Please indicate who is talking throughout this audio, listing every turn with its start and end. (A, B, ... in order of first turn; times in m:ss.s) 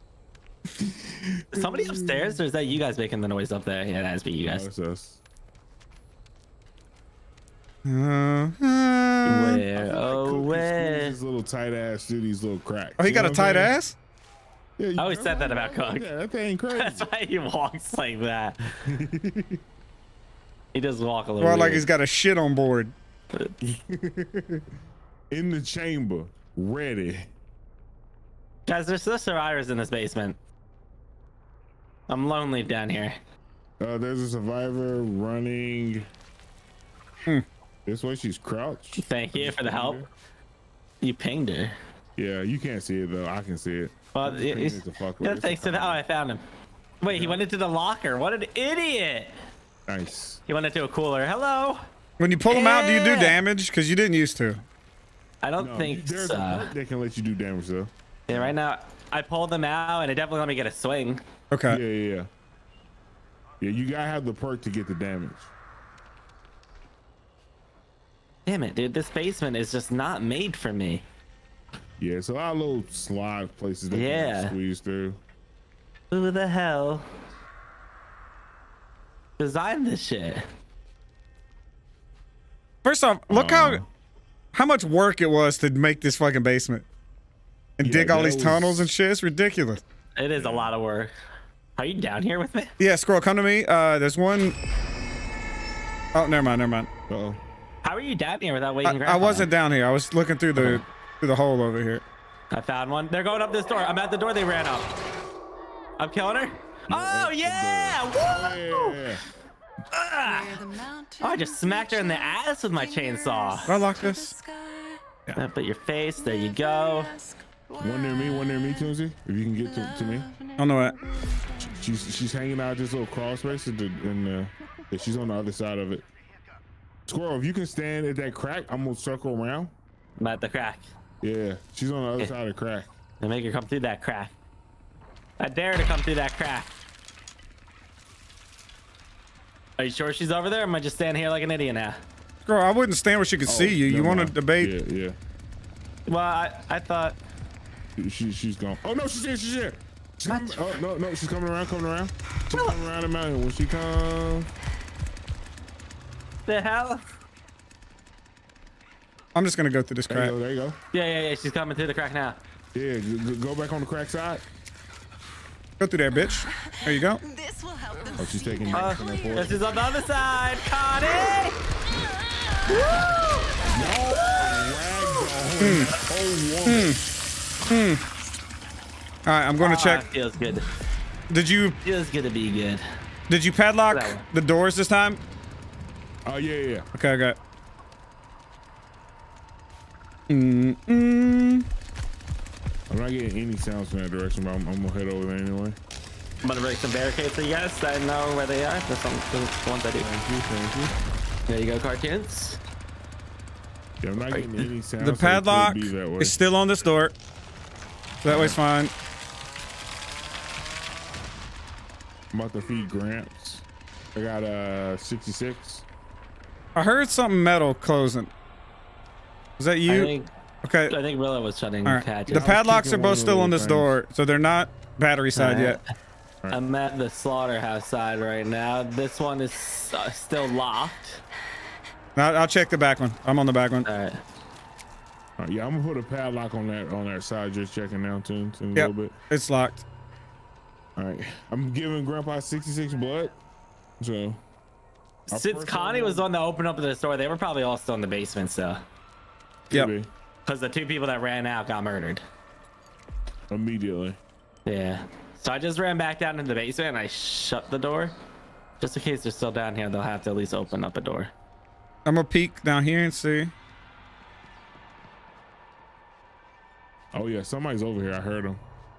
0:00.8-0:02.4 A
0:01.5-0:04.7 B
0:04.4-0:05.2 A
0:07.8-0:09.6 C
0:09.2-0:11.2 B
0:09.3-0:13.7 A
0:13.0-0:14.0 C
0:14.8-0:17.1 A
0:15.0-0:16.0 B
0:16.8-0:18.8 B
0:18.8-0:19.6 A
0:20.7-0:21.8 B
0:21.4-0:22.9 C
0:23.9-0:24.6 A
0:25.3-0:27.3 A
0:28.6-0:30.4 B
0:32.1-0:33.2 B
0:33.8-0:36.1 A
0:37.8-0:40.1 A
0:39.0-0:40.0 B
0:41.0-0:41.7 B
0:42.2-0:46.0 A
0:44.1-0:46.4 B
0:47.0-0:49.3 B
0:47.1-0:47.4 A
0:49.9-0:50.4 A
0:50.5-0:51.8 B
0:52.2-0:54.6 C
0:52.5-0:53.4 B
0:55.4-0:56.7 B
0:55.6-0:58.5 A
0:58.3-1:01.2 B
1:01.5-1:01.8 C
1:01.7-1:02.3 A
1:03.6-1:05.5 A
1:08.4-1:11.0 B
1:12.0-1:15.2 A
1:13.9-1:14.6 B
1:16.1-1:17.0 B
1:19.4-1:20.4 B
1:22.8-1:23.8 C
1:23.3-1:23.9 A
1:24.5-1:26.8 C
1:27.8-1:29.8 C
1:27.8-1:28.9 A
1:30.2-1:31.1 B
1:30.4-1:30.7 A
1:31.8-1:32.7 B
1:32.8-1:34.6 C
1:36.1-1:36.9 C
1:37.1-1:37.4 A
1:37.8-1:39.5 B
1:38.8-1:42.0 C
1:40.6-1:40.8 B
1:42.5-1:44.9 B
1:46.0-1:49.0 B
1:46.9-1:49.2 A
1:49.9-1:50.5 B
1:50.2-1:55.0 D
1:51.2-1:53.7 B
1:53.7-1:54.3 C
1:55.4-1:57.1 B
1:56.2-1:59.0 D
1:57.8-2:00.3 A
1:59.6-2:02.0 D
2:00.6-2:01.0 C
2:01.6-2:06.0 A
2:07.1-2:09.7 A
2:10.2-2:10.9 B
2:11.2-2:12.9 A
2:13.2-2:14.3 B
2:15.4-2:16.7 B
2:19.8-2:22.0 B
2:22.4-2:24.7 C
2:23.4-2:25.2 A
2:26.1-2:27.2 B
2:28.0-2:34.5 A
2:30.2-2:30.6 B
2:36.4-2:37.0 B
2:39.3-2:40.3 C
2:40.1-2:40.8 A
2:40.9-2:42.4 B
2:42.7-2:44.4 A
2:45.8-2:47.2 C
2:46.1-2:50.1 D
2:48.2-2:49.5 A
2:48.7-2:51.6 B
2:51.0-2:51.4 D
2:51.9-2:53.8 D
2:52.7-2:53.2 B
2:53.7-2:57.0 A
2:54.2-2:54.5 B
2:55.6-2:55.9 C
2:56.6-2:57.0 C
2:57.7-2:58.0 C
2:59.2-3:00.0 C
2:59.6-3:00.7 B
3:01.3-3:01.8 C
3:01.8-3:02.8 B
3:03.3-3:05.2 C
3:03.9-3:04.2 B
3:06.2-3:06.9 A
3:06.9-3:07.4 C
3:10.3-3:11.7 C
3:12.9-3:15.8 A
3:16.4-3:20.1 B
3:20.0-3:20.9 A
3:21.5-3:22.6 B
3:24.0-3:26.4 A
3:24.3-3:24.7 B
3:25.0-3:27.1 C
3:28.2-3:28.9 C
3:28.2-3:28.6 A
3:32.3-3:35.8 A
3:36.7-3:38.3 C
3:39.6-3:40.1 C
3:39.9-3:40.3 B
3:40.6-3:40.9 C
3:40.9-3:42.5 B
3:41.8-3:45.8 C
3:42.3-3:43.9 A
3:45.3-3:45.8 B
3:46.5-3:51.2 B
3:52.2-3:53.9 C
3:53.8-3:54.2 B
3:55.4-3:59.2 A
3:58.7-3:59.8 C
4:01.0-4:03.3 A
4:04.0-4:04.4 A
4:05.3-4:06.3 A
4:05.3-4:08.8 B
4:09.7-4:10.1 A
4:10.4-4:12.2 B
4:13.5-4:14.2 A
4:14.6-4:18.1 B
4:18.8-4:21.3 B
4:22.0-4:23.5 C
4:27.1-4:28.6 A